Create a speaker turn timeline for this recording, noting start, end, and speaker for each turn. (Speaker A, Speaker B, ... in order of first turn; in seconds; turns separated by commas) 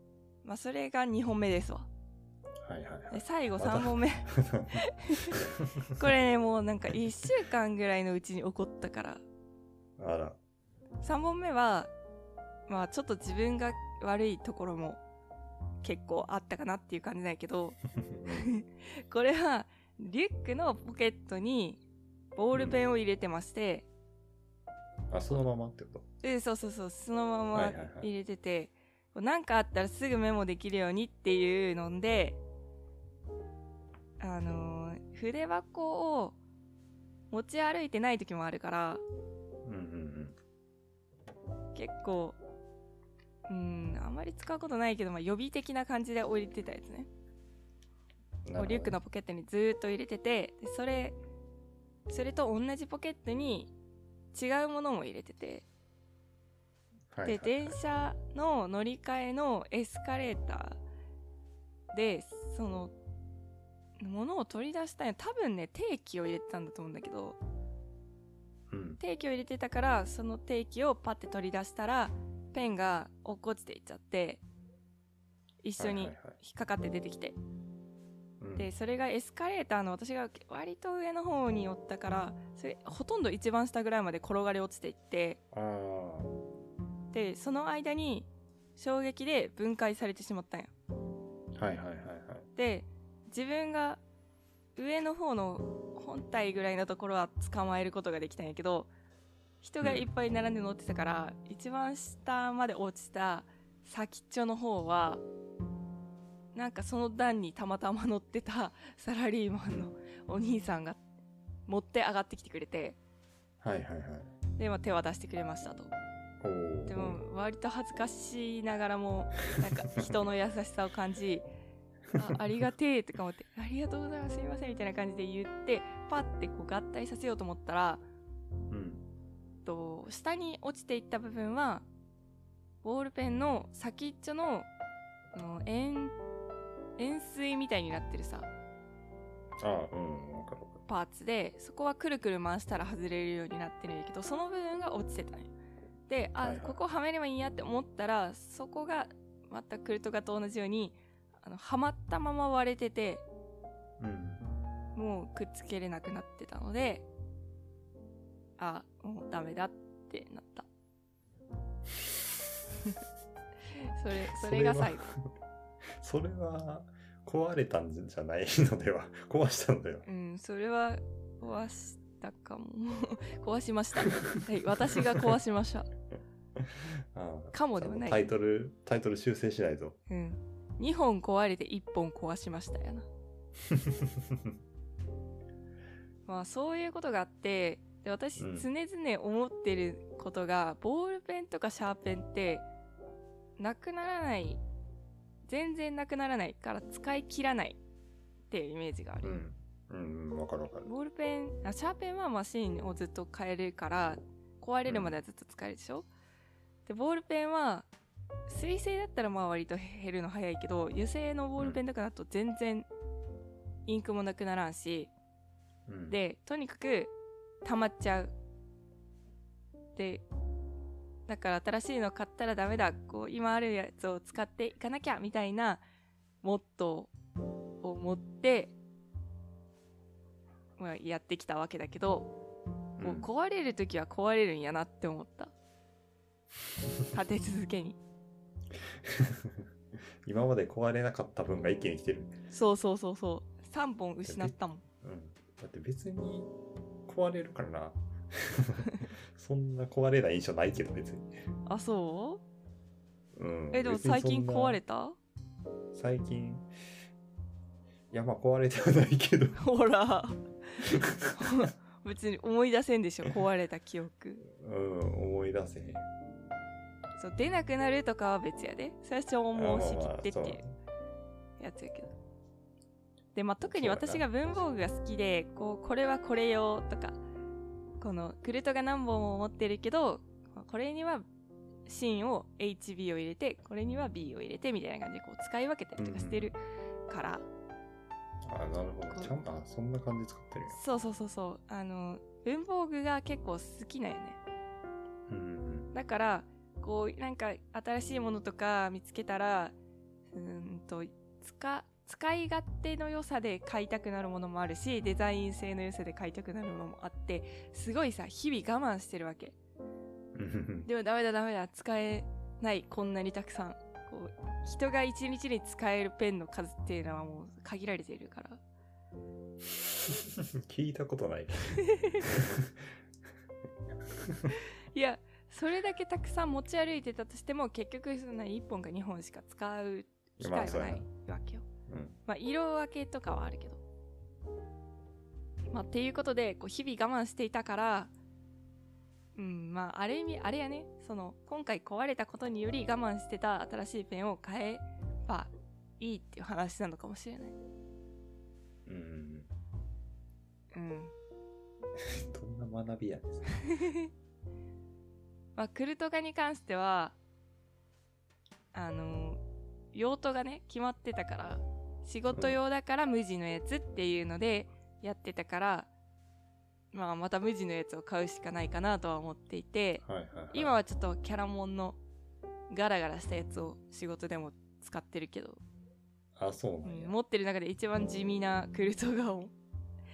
Speaker A: 0.4-1.9, Speaker B: 2.6-4.8, Speaker A: 3.1-5.4, Speaker A: 6.0-9.2, Speaker B: 10.0-10.4, Speaker A: 11.0-11.9, Speaker A: 12.7-15.0, Speaker A: 15.8-21.8, Speaker B: 18.0-18.5, Speaker A: 22.4-23.9, Speaker B: 22.5-22.8, Speaker B: 25.1-26.0, Speaker A: 26.2-32.4, Speaker B: 27.5-28.1, Speaker A: 34.2-36.4, Speaker A: 37.3-39.0, Speaker B: 39.6-40.4, Speaker A: 41.8-42.4, Speaker A: 43.5-47.1, Speaker B: 48.4-49.0, Speaker A: 48.6-51.1, Speaker A: 52.1-53.7, Speaker A: 54.3-55.6, Speaker B: 57.1-57.8, Speaker A: 57.2-60.8, Speaker A: 61.9-62.9, Speaker A: 64.0-67.4, Speaker B: 68.7-69.0, Speaker A: 69.0-74.4, Speaker A: 75.6-77.4, Speaker B: 75.8-76.4, Speaker B: 78.4-78.7, Speaker A: 78.6-85.4, Speaker B: 85.5-86.3, Speaker A: 87.1-90.7, Speaker B: 91.5-92.5, Speaker A: 92.5-94.0, Speaker A: 94.8-98.9, Speaker A: 99.6-105.2, Speaker B: 99.8-100.1, Speaker A: 106.5-111.0, Speaker A: 111.7-113.0, Speaker B: 113.6-114.3, Speaker A: 114.6-115.9, Speaker B: 116.4-117.2, Speaker A: 116.9-121.5, Speaker A: 122.1-128.0, Speaker B: 128.7-129.0, Speaker A: 129.6-131.9, Speaker A: 132.8-134.7, Speaker A: 135.3-136.1, Speaker A: 137.0-138.5, Speaker B: 139.6-140.8, Speaker A: 140.9-145.5, Speaker A: 146.1-153.2, Speaker B: 146.4-146.8, Speaker B: 154.0-154.4, Speaker A: 154.9-157.0, Speaker A: 158.6-160.7, Speaker A: 163.8-165.1, Speaker B: 164.2-165.3, Speaker B: 166.0-170.1, Speaker A: 170.0-175.9, Speaker B: 176.6-180.0, Speaker A: 177.5-178.2, Speaker A: 180.1-183.1, Speaker B: 183.7-184.5, Speaker A: 186.2-192.6, Speaker B: 188.4-188.7, Speaker A: 193.6-194.6, Speaker A: 195.5-197.8, Speaker A: 198.5-199.4, Speaker B: 199.2-200.9, Speaker A: 200.8-206.1, Speaker B: 204.9-205.2, Speaker A: 206.9-207.9, Speaker A: 208.5-212.9, Speaker A: 213.9-215.1, Speaker B: 215.9-216.2, Speaker A: 216.1-217.1, Speaker A: 217.6-218.3, Speaker A: 219.9-220.2, Speaker A: 221.3-225.8, Speaker A: 226.4-227.1, Speaker A: 227.8-228.8, Speaker A: 230.8-232.3, Speaker B: 233.0-233.3, Speaker A: 233.0-235.5, Speaker A: 237.1-238.0, Speaker B: 238.8-239.7, Speaker B: 240.2-242.4, Speaker A: 242.5-244.8, Speaker B: 244.2-246.5, Speaker B: 247.1-251.4, Speaker A: 251.7-252.4, Speaker B: 253.3-254.8, Speaker A: 253.7-255.2, Speaker B: 255.9-256.7, Speaker B: 258.1-259.6, Speaker A: 259.6-264.4, Speaker B: 260.9-261.4, Speaker B: 264.4-266.1, Speaker A: 267.2-270.6, Speaker B: 269.5-270.7, Speaker A: 271.6-272.1, Speaker A: 273.3-277.2, Speaker B: 273.6-274.3, Speaker A: 278.0-281.2, Speaker A: 281.9-287.5, Speaker B: 286.0-286.5, Speaker B: 288.4-290.8, Speaker A: 290.7-294.4, Speaker B: 295.3-295.9, Speaker A: 295.9-299.8, Speaker A: 300.3-309.5, Speaker B: 310.3-310.9, Speaker A: 310.8-318.6, Speaker B: 319.7-322.7, Speaker A: 321.9-322.2, Speaker B: 324.1-324.5, Speaker A: 324.9-331.7, Speaker B: 330.4-331.1, Speaker B: 331.9-332.2, Speaker A: 332.2-333.8, Speaker A: 335.7-338.1, Speaker A: 339.4-347.6, Speaker B: 348.9-349.5, Speaker A: 350.7-351.1, Speaker B: 352.0-353.5, Speaker A: 353.6-354.1, Speaker A: 355.6-357.1, Speaker A: 358.7-359.4, Speaker A: 359.9-365.9, Speaker B: 362.3-362.6, Speaker A: 366.9-372.0, Speaker B: 370.0-370.7, Speaker A: 372.7-375.6, Speaker B: 376.4-377.1, Speaker A: 376.8-379.5